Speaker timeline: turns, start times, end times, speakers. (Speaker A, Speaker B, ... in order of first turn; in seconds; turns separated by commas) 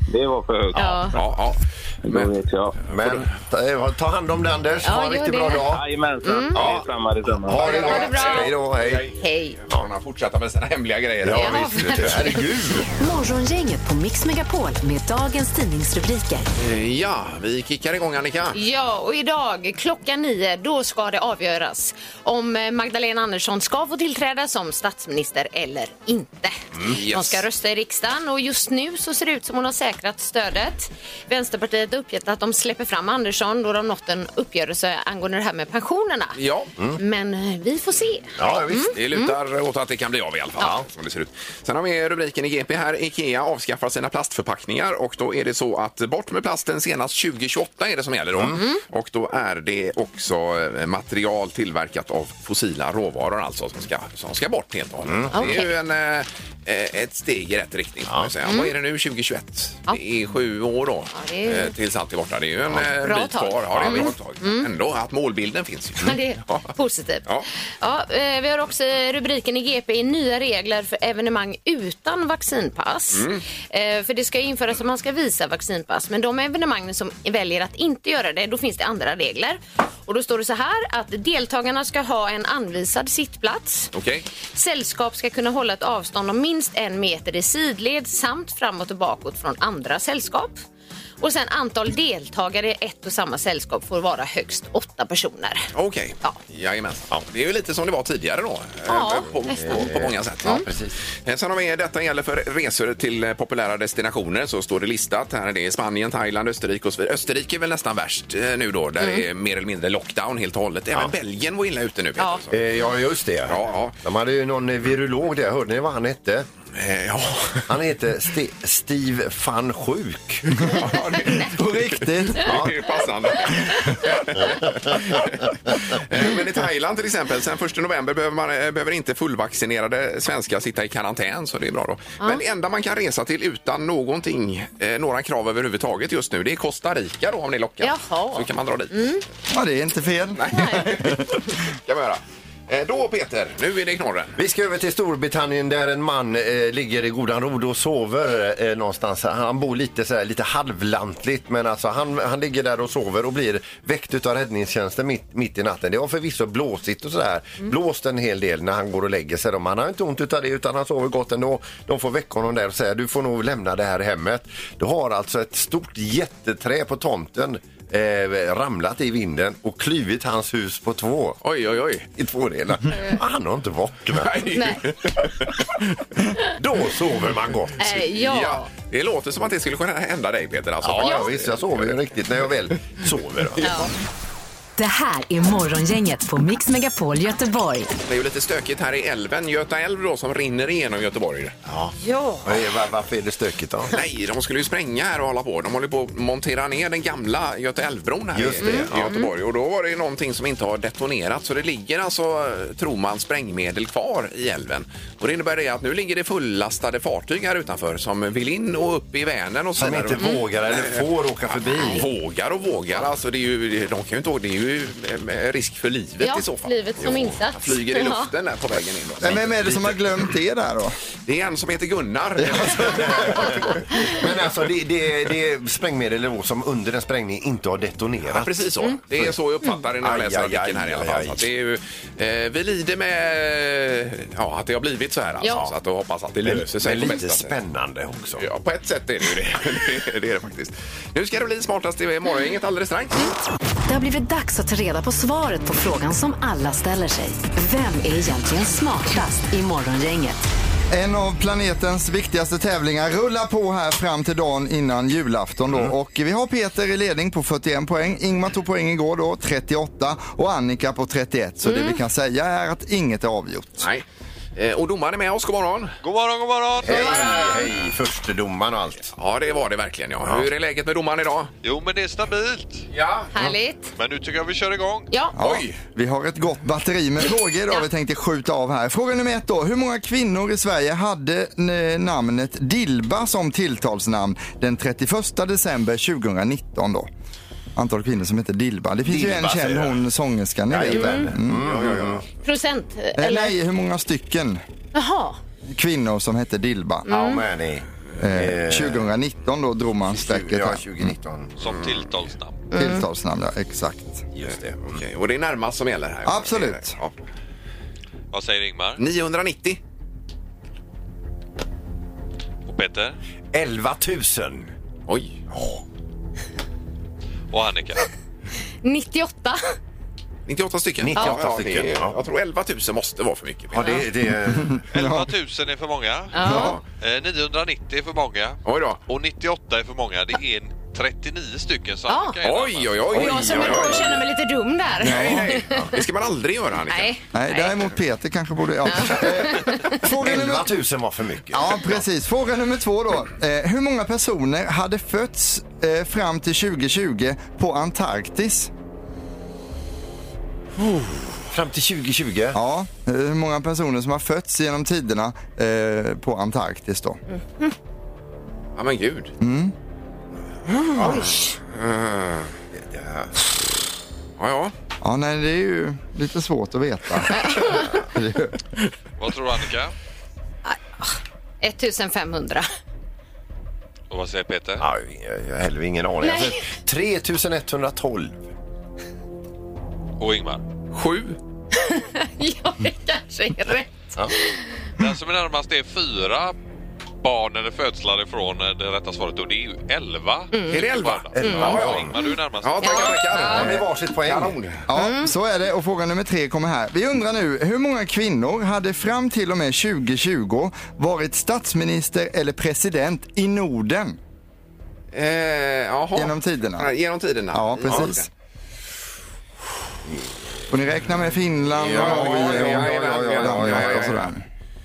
Speaker A: 0.1-1.1, Speaker B: 0.8-1.1, Speaker C: 1.1-2.3, Speaker A: 2.0-2.8, Speaker D: 2.9-5.8, Speaker B: 4.8-5.7, Speaker A: 5.7-8.0, Speaker B: 6.2-6.6, Speaker D: 6.5-6.9, Speaker D: 7.4-9.1, Speaker C: 7.5-12.3, Speaker B: 7.6-8.6, Speaker B: 9.2-9.6, Speaker D: 11.2-13.0, Speaker B: 11.3-12.5, Speaker E: 13.0-16.5, Speaker C: 16.6-18.6, Speaker B: 18.5-36.4, Speaker C: 26.9-27.4, Speaker C: 36.4-36.7, Speaker B: 37.0-39.4, Speaker D: 38.4-39.0, Speaker C: 38.9-66.7, Speaker D: 40.6-40.9, Speaker D: 48.4-48.6, Speaker B: 48.5-48.8, Speaker D: 55.0-55.5, Speaker B: 55.3-55.7, Speaker B: 58.5-58.7, Speaker B: 61.1-61.7, Speaker B: 63.0-64.7, Speaker D: 63.7-64.1, Speaker B: 66.0-67.3, Speaker B: 67.8-83.9, Speaker C: 73.1-73.4, Speaker C: 83.9-84.3, Speaker B: 84.5-90.6, Speaker B: 91.2-95.7, Speaker C: 95.7-112.6, Speaker B: 98.9-99.8, Speaker D: 99.5-101.0, Speaker B: 109.0-109.3, Speaker D: 112.5-116.5, Speaker C: 113.5-114.0, Speaker C: 116.7-117.7, Speaker D: 117.7-120.7, Speaker C: 120.5-139.1, Speaker F: 121.3-122.7, Speaker D: 122.4-122.7, Speaker D: 124.4-125.2, Speaker B: 137.8-139.2, Speaker F: 139.5-141.3, Speaker C: 140.3-144.3, Speaker B: 140.5-140.9, Speaker D: 144.4-171.4, Speaker C: 171.4-172.1, Speaker D: 172.1-174.6, Speaker C: 174.1-175.7, Speaker B: 174.5-174.8, Speaker D: 176.5-178.0, Speaker B: 177.8-178.7, Speaker C: 177.9-182.0, Speaker D: 180.8-183.8, Speaker B: 181.0-181.3, Speaker B: 183.6-183.9, Speaker E: 184.8-187.9, Speaker C: 188.1-191.6, Speaker D: 191.7-194.0, Speaker B: 192.0-192.6, Speaker C: 193.9-220.0, Speaker D: 198.3-199.1, Speaker B: 198.6-199.3, Speaker D: 209.8-212.1, Speaker B: 216.2-218.3, Speaker F: 219.2-221.0, Speaker C: 221.2-224.3, Speaker D: 222.5-228.6, Speaker C: 228.3-237.6, Speaker D: 230.0-231.4, Speaker D: 236.4-238.4, Speaker C: 238.4-243.3, Speaker E: 243.9-250.4, Speaker F: 250.9-263.9, Speaker B: 261.6-262.0, Speaker C: 263.8-264.0, Speaker C: 264.6-266.0, Speaker G: 266.0-267.2, Speaker D: 266.8-269.1, Speaker B: 266.9-267.7, Speaker C: 269.2-271.5, Speaker G: 271.6-272.9, Speaker C: 272.9-273.3, Speaker B: 273.3-273.9, Speaker G: 274.0-275.1, Speaker B: 275.1-275.4, Speaker F: 275.4-287.1, Speaker C: 275.4-275.8, Speaker F: 287.8-291.9, Speaker D: 289.1-290.0, Speaker D: 290.7-292.2, Speaker B: 290.9-291.3, Speaker C: 291.6-292.2, Speaker B: 292.4-293.6, Speaker F: 293.2-294.6, Speaker B: 294.9-295.4, Speaker F: 295.7-297.1, Speaker B: 297.1-297.4, Speaker D: 297.1-299.1, Speaker F: 298.2-301.1, Speaker D: 300.1-301.6, Speaker G: 301.6-302.6, Speaker B: 302.7-303.1, Speaker F: 302.7-304.3, Speaker D: 304.4-305.0, Speaker C: 304.9-307.1, Speaker F: 306.3-306.9, Speaker G: 308.3-309.0, Speaker C: 309.0-309.8, Speaker G: 312.7-313.2, Speaker D: 313.5-314.7, Speaker C: 315.1-315.4, Speaker D: 315.5-315.8, Speaker G: 317.5-318.1, Speaker B: 318.8-319.6, Speaker C: 320.5-324.0, Speaker D: 321.0-322.2, Speaker D: 323.7-324.8, Speaker F: 324.5-325.3, Speaker G: 324.9-333.1, Speaker B: 326.3-326.8, Speaker F: 326.4-326.8, Speaker C: 328.7-329.0, Speaker B: 332.1-332.4, Speaker C: 332.4-334.1, Speaker B: 333.1-335.9, Speaker D: 333.1-334.2, Speaker F: 335.0-335.6, Speaker C: 335.0-337.1, Speaker B: 336.9-337.8, Speaker F: 337.3-340.8, Speaker B: 338.9-340.0, Speaker D: 340.2-341.9, Speaker F: 341.5-348.7, Speaker D: 351.5-352.6, Speaker F: 352.5-357.2, Speaker C: 358.8-359.3, Speaker F: 359.4-359.7, Speaker C: 360.8-361.2, Speaker D: 360.9-361.4, Speaker B: 361.0-361.5, Speaker C: 361.7-362.5, Speaker D: 362.8-363.3, Speaker C: 364.4-364.7, Speaker F: 365.0-368.6, Speaker B: 367.4-367.9, Speaker G: 369.2-369.9, Speaker B: 370.6-372.7, Speaker G: 374.1-374.9, Speaker D: 374.8-378.5, Speaker B: 376.2-376.7, Speaker G: 380.2-380.6, Speaker C: 380.9-381.4, Speaker B: 381.8-384.8, Speaker G: 385.0-386.6, Speaker G: 387.2-393.3, Speaker B: 390.5-390.8, Speaker C: 390.7-392.1, Speaker D: 391.3-392.2, Speaker B: 391.4-392.3, Speaker C: 392.6-394.8, Speaker B: 392.8-393.7, Speaker D: 393.4-394.6, Speaker F: 394.9-404.2, Speaker B: 394.9-395.3, Speaker C: 405.1-408.3, Speaker F: 406.1-406.9, Speaker F: 407.5-408.3, Speaker F: 410.7-414.4, Speaker D: 411.7-414.2, Speaker C: 411.8-414.3